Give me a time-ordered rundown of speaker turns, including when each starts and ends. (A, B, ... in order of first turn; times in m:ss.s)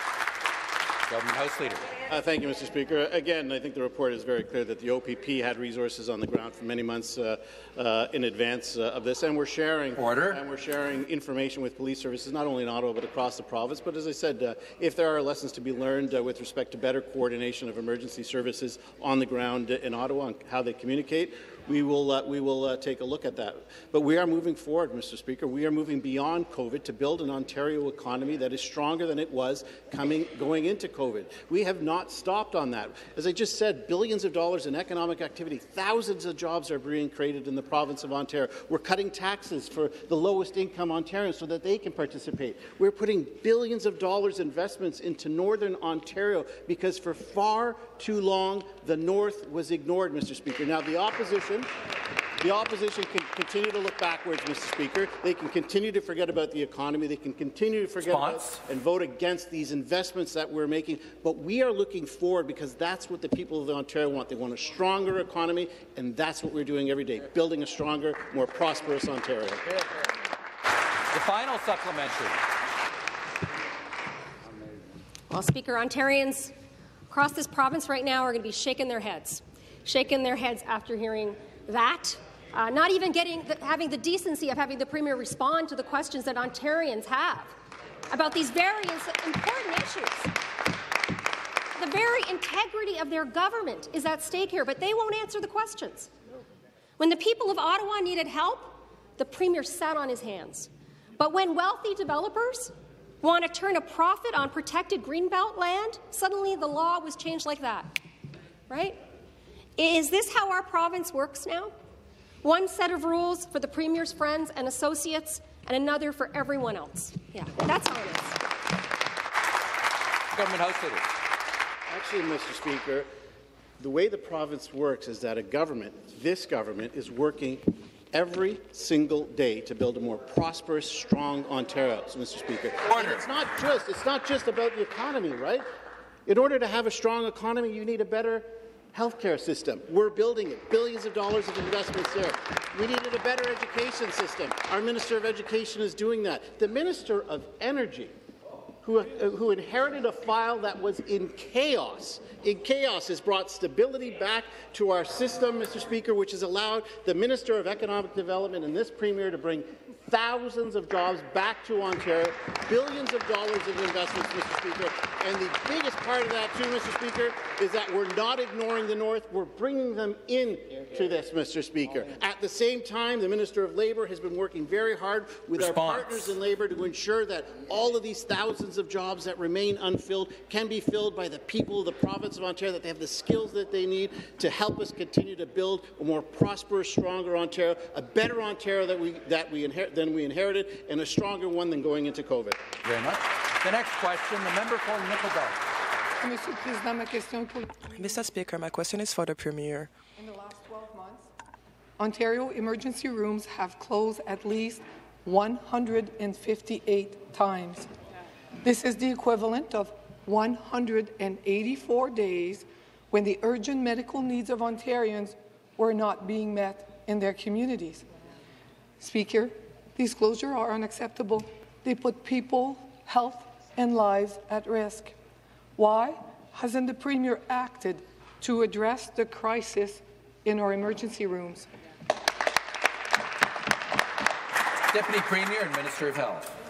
0:01.1-0:01.9 A
0:02.1-0:51.7 B
0:10.0-0:10.4 A
0:52.4-1:09.8 B
0:58.0-0:58.6 A
1:11.1-1:12.4 A
1:15.3-1:16.5 C
1:17.1-1:27.6 C
1:28.1-1:30.3 C
1:31.8-1:36.1 C
1:37.0-1:47.9 C
1:48.7-1:49.0 C
1:49.8-1:51.7 C
1:52.4-1:58.4 C
2:00.3-2:01.1 A
2:01.9-2:03.1 B
2:03.8-2:15.7 B
2:12.9-2:13.3 A
2:16.3-2:28.1 B
2:28.8-3:12.6 B
2:55.5-2:56.3 A
3:12.8-3:15.6 A
3:16.2-3:17.9 D
3:17.9-3:19.9 E
3:20.2-3:21.3 D
3:22.0-3:27.9 D
3:28.6-3:38.0 D
3:39.0-3:45.1 D
3:45.8-3:51.7 D
3:54.9-3:56.5 A